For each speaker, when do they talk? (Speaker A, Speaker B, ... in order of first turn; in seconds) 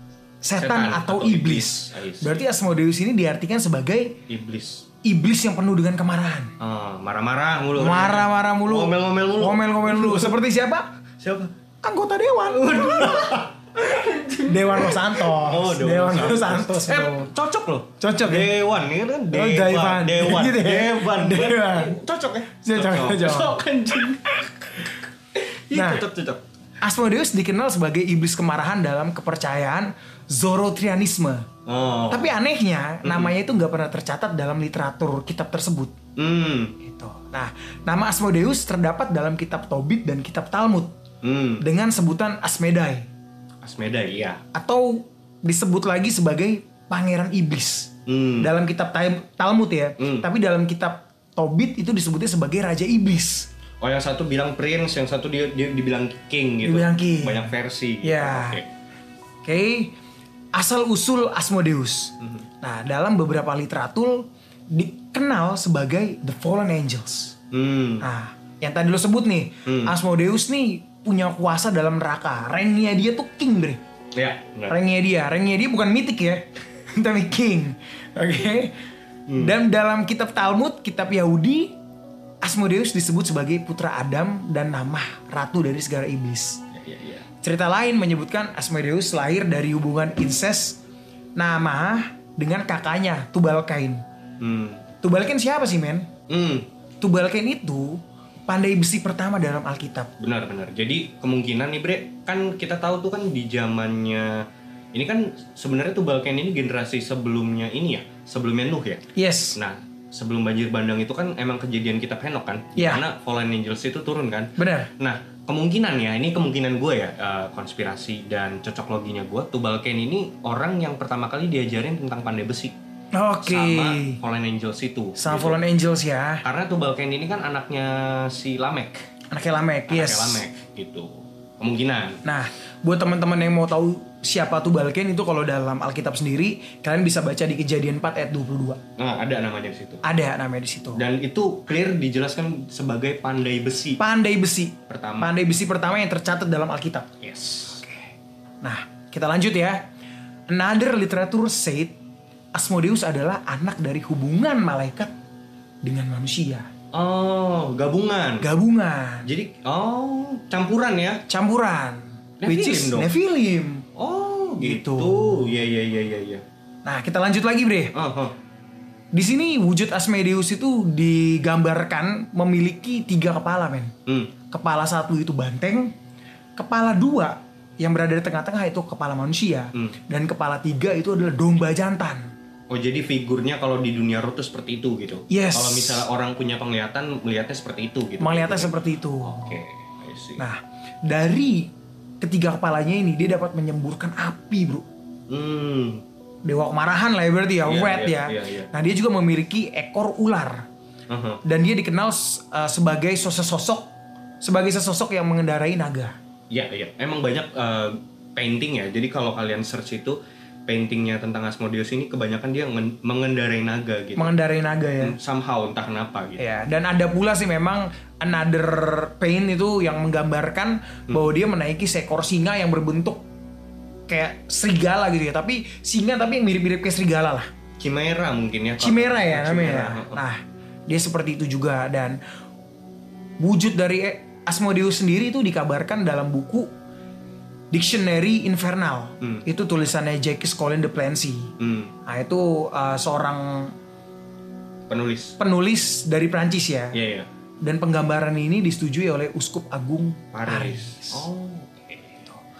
Speaker A: 0.4-4.2, 5.0-6.5, 7.8-10.9, 11.8-13.5, 14.4-17.3, 18.0-18.5, 19.3-22.0, 22.6-23.6, 25.7-26.0, 26.8-31.5, 32.1-35.9, 36.8-40.9, 41.6-43.1, 44.5-53.5, 56.6-57.5, 58.0-58.6, 59.4-60.0, 60.5-67.3, 68.0-73.8, 74.7-78.7, 79.3-81.7, 82.4-86.6, 87.4-90.8, 91.3-94.0, 95.0-96.1, 97.0-100.1, 109.1-109.6, 112.8-113.0, 114.6-114.9, 123.1-124.2, 125.2-126.4, 129.3-130.4, 132.2-138.8, 140.0-141.0, 144.0-147.1, 148.6-149.8, 150.5-151.9, 152.5-155.1, 155.8-156.7, 158.4-159.3, 161.3-163.8, 164.6-165.4, 166.8-167.9, 169.1-173.9, 174.5-175.9, 176.6-182.3, 185.3-186.0, 188.2-189.6, 190.4-194.8, 196.4-200.7, 201.4-203.9, 204.4-206.2, 214.2-215.1, 216.4-223.2, 224.1-227.5, 228.8-232.2, 233.4-236.7, 237.7-241.5, 242.1-243.7, 245.4-247.0, 247.6-251.3
Speaker B: 0.6-2.5, 4.3-4.8, 6.6-10.3, 11.2-11.5, 12.5-26.4, 31.6-32.3, 33.0-33.3, 36.1-36.8, 41.2-41.6, 43.6-44.4, 48.0-48.5, 50.0-50.3, 53.8-58.7, 67.5-68.1, 69.7-69.9, 74.1-74.8, 79.3-79.6, 86.7-87.2, 94.4-94.8, 96.3-96.7, 100.2-109.0, 109.5-122.7, 123.4-125.6, 126.4-129.0, 129.9-132.2, 139.0-140.0, 140.9-144.0, 144.9-145.3, 147.2-147.8, 156.9-158.5, 159.2-161.2, 162.4-163.1, 163.9-166.4, 167.9-168.3, 174.1-174.3, 182.7-190.4, 195.3-196.0, 197.6-198.7, 201.1-201.4, 206.5-214.3, 215.0-216.4, 227.8-230.2, 241.6-241.9, 244.9-245.4, 246.9-247.3, 250.3-252.4